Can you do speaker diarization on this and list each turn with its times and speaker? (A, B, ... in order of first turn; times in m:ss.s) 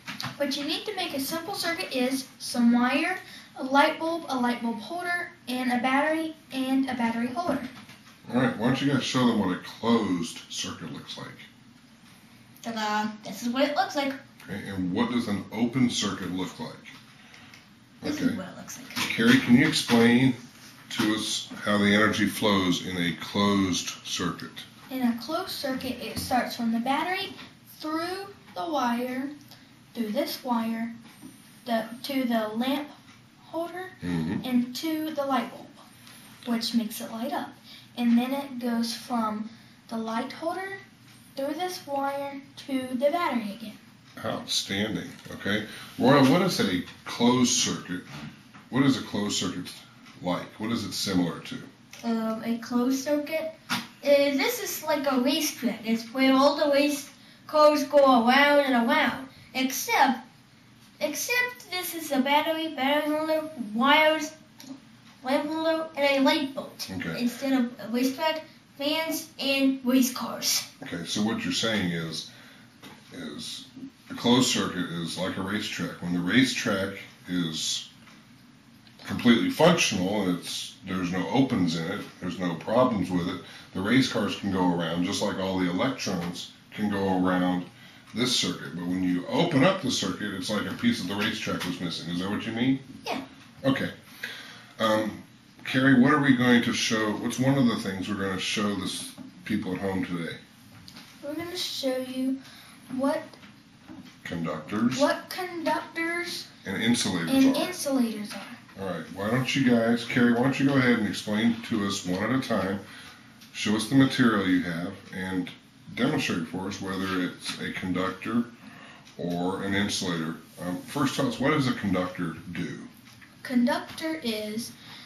0:00.4-0:07.7 A
0:08.3-0:11.5 B
0:12.6-0:14.2 C
0:14.4-0:16.9 B
0:18.0-0:18.4 B
0:18.0-0:19.0 C
0:19.0-0:24.6 B
0:24.9-0:29.3 A
0:29.9-0:30.9 A
0:31.6-0:35.8 A
0:34.0-0:34.4 B
0:36.4-0:40.8 A
0:41.3-0:43.8 A
0:44.2-0:48.1 B
0:48.7-0:51.7 B
0:52.0-1:00.2 C
1:01.0-1:04.3 C
1:05.2-1:10.6 C
1:06.9-1:07.2 B
1:10.8-1:12.3 B
1:13.1-1:17.8 B
1:19.0-1:32.8 B
1:33.6-1:33.9 B
1:34.8-1:40.4 B
1:41.2-1:42.4 A
1:42.9-1:43.4 A
1:44.2-1:45.1 B
1:44.9-1:46.5 A
1:46.6-1:47.8 B
1:47.3-1:48.6 A
1:48.8-1:52.8 B
1:53.5-1:58.5 B
1:59.2-2:02.9 B
2:03.4-2:04.7 A